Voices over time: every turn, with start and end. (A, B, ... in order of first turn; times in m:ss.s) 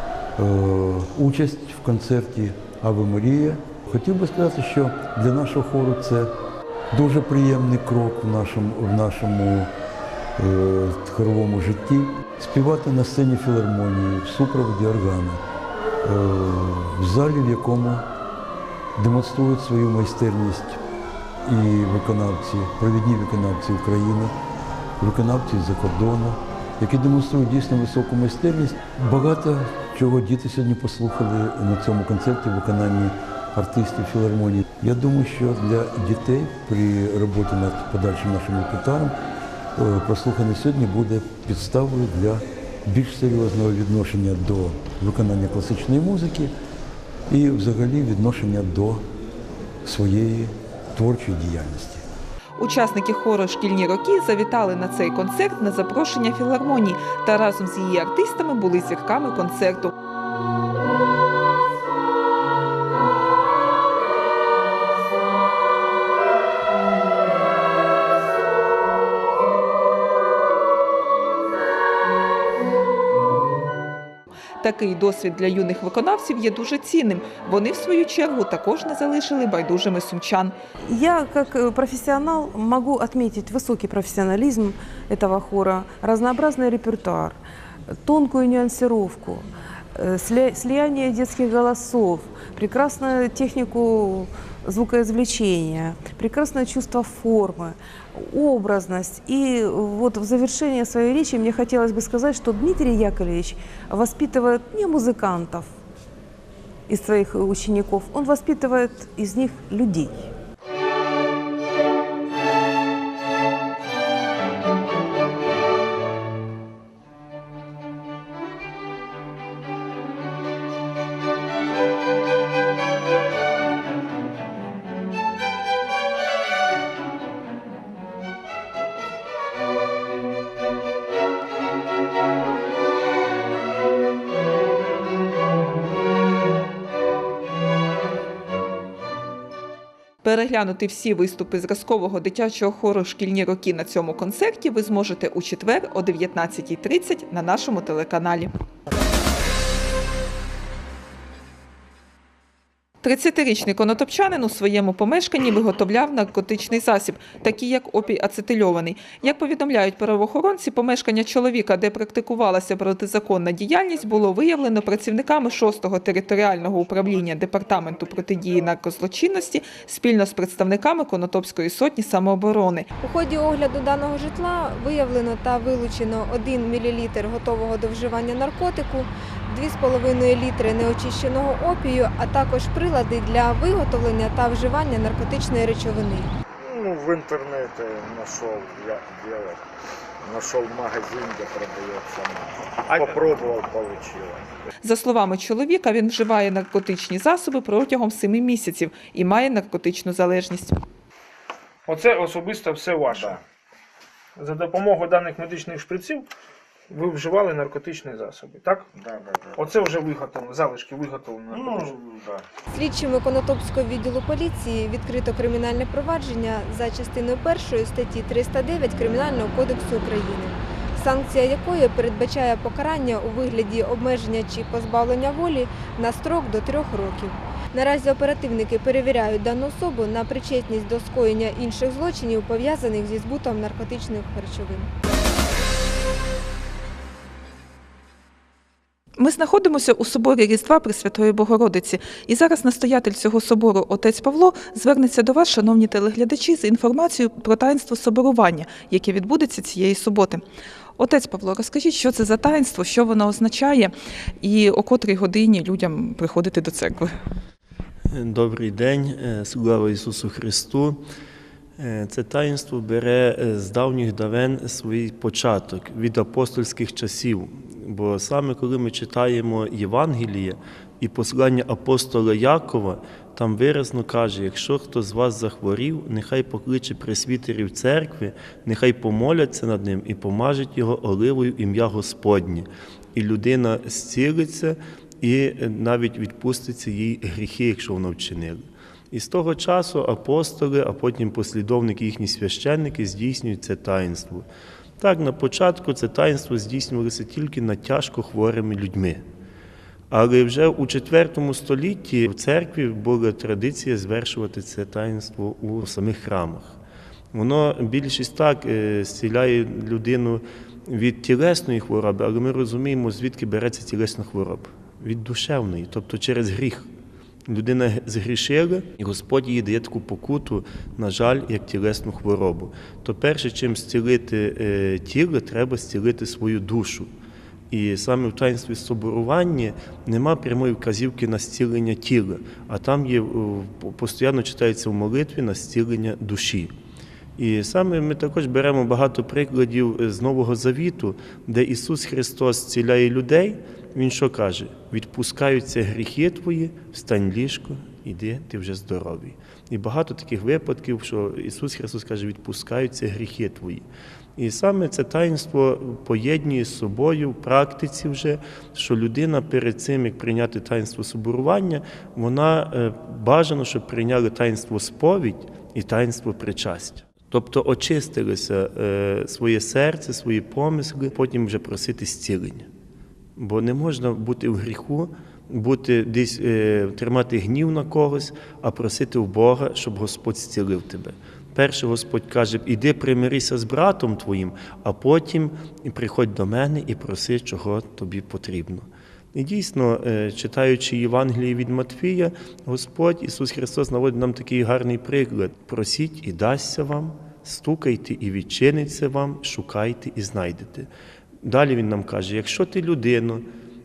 0:00.4-0:06.3 A
0:06.9-0:09.7 A
0:10.4-0:15.4 A
0:16.0-0:18.0 A
0:19.0-0:20.8 A
0:21.4-0:24.3 A
0:25.0-0:39.1 A
0:39.8-0:46.5 A
0:47.3-0:49.0 A
0:49.8-0:52.0 A
0:52.6-0:59.9 B
1:14.6-1:20.5 B
1:20.8-1:45.7 C
1:46.9-1:50.3 C
2:20.2-2:28.5 B
2:33.0-2:52.9 B
2:53.0-3:06.3 D
3:06.6-3:09.6 E
3:10.2-3:14.5 E
3:12.9-3:13.5 F
3:14.8-3:20.8 B
3:21.9-3:23.4 F
3:23.1-3:23.4 E
3:24.4-3:26.3 F
3:26.9-3:28.9 F
3:28.9-3:29.9 E
3:29.6-3:31.9 F
3:31.5-3:32.4 E
3:32.7-3:54.9 D
3:59.2-4:10.4 B
4:11.0-4:17.1 B
4:18.1-4:21.0 G
4:21.8-4:54.4 G
4:55.0-4:59.2 G
5:00.1-5:06.8 G
5:07.3-5:16.9 G
5:17.5-5:27.1 G
5:27.7-5:36.7 G
5:37.4-5:53.8 G
5:54.4-6:12.7 G
6:13.4-6:40.9 G
6:41.4-6:43.4 G